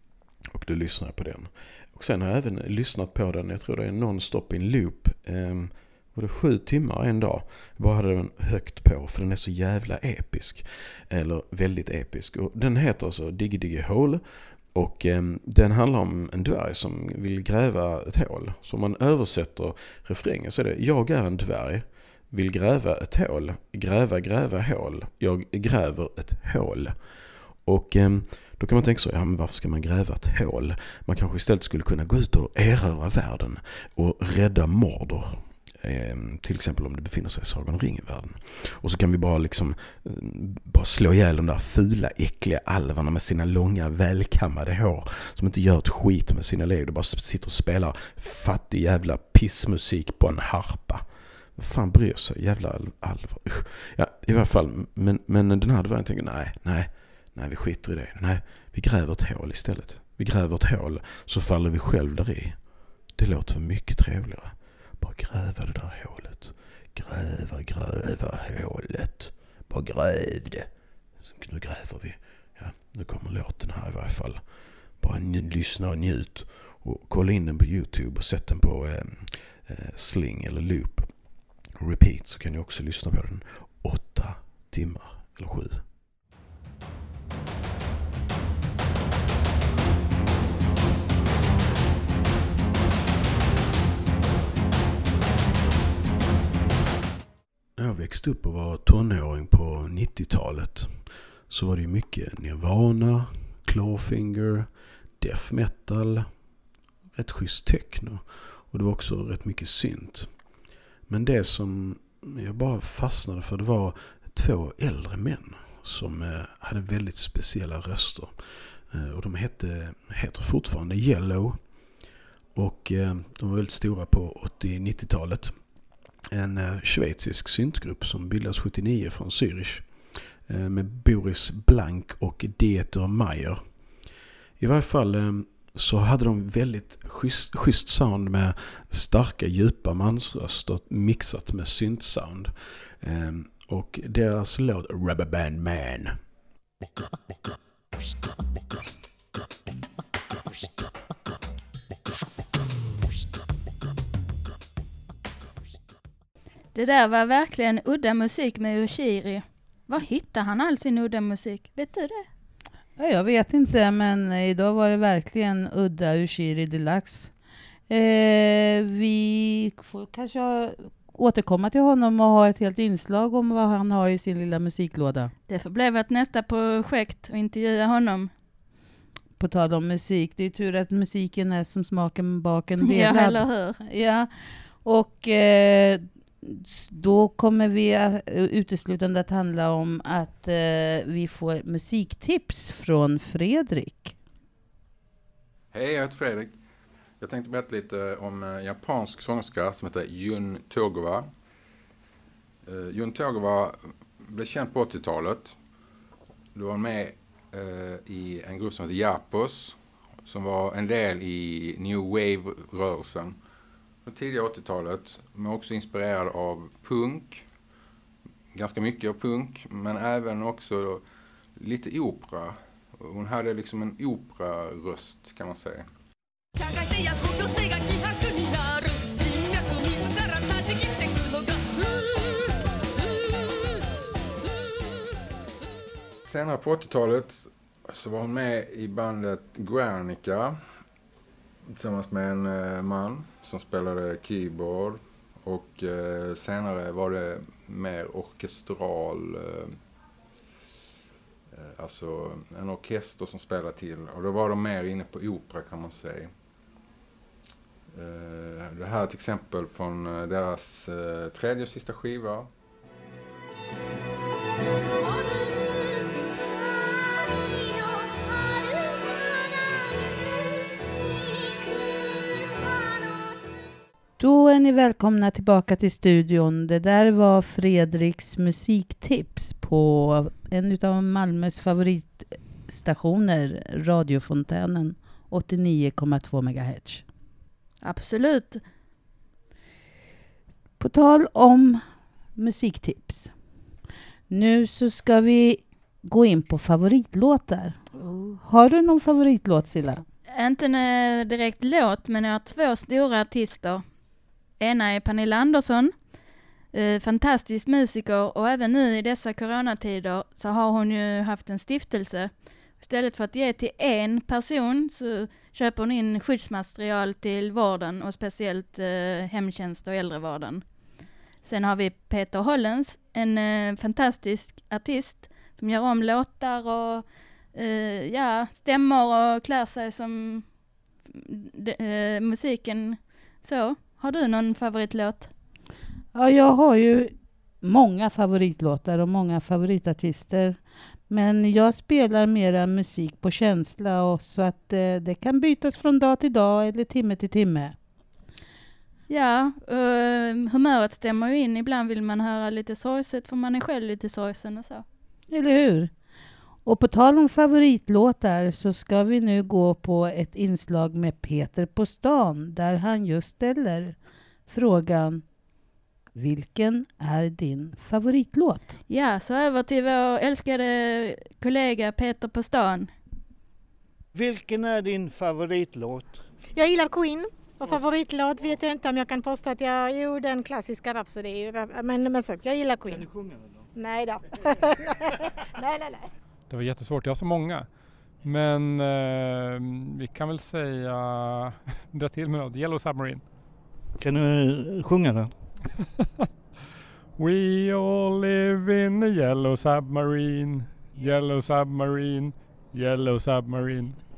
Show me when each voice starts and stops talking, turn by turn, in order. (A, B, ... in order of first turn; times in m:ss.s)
0:00.5-1:25.9 A
1:37.8-1:46.5 A
1:47.1-2:05.7 A
2:06.3-2:26.2 A
2:36.7-2:42.3 B
2:43.0-2:47.4 C
2:47.9-2:55.3 C
2:55.5-2:58.3 B
2:59.4-3:14.2 C
3:02.8-3:03.8 B
3:15.7-3:16.6 D
3:17.2-3:21.3 D
3:22.6-3:25.6 D
3:26.5-3:33.4 D
3:34.0-3:37.4 D
3:38.5-3:41.0 D
3:41.6-3:45.9 D
3:56.2-4:00.6 D
4:01.6-4:09.8 D
4:11.5-4:16.3 D
4:17.9-4:22.5 D
4:34.2-4:47.0 C
4:47.8-4:48.6 B
4:50.8-4:51.8 C
4:52.3-4:53.3 C
4:54.3-5:00.0 C
5:00.3-5:03.8 B
5:04.6-5:06.0 B
5:06.7-5:20.7 B
5:21.4-5:30.5 B
5:31.1-5:35.3 B
5:36.1-5:47.8 C
5:49.1-5:54.8 B
5:55.3-5:56.0 C
5:56.6-6:05.2 C
6:06.1-6:08.7 C
6:08.9-6:12.9 B
6:14.1-6:16.2 E
6:16.5-6:23.1 F
6:22.8-6:23.7 E
6:23.7-6:26.1 F
6:26.5-6:33.2 G
6:34.0-6:35.4 E
6:37.2-6:44.0 G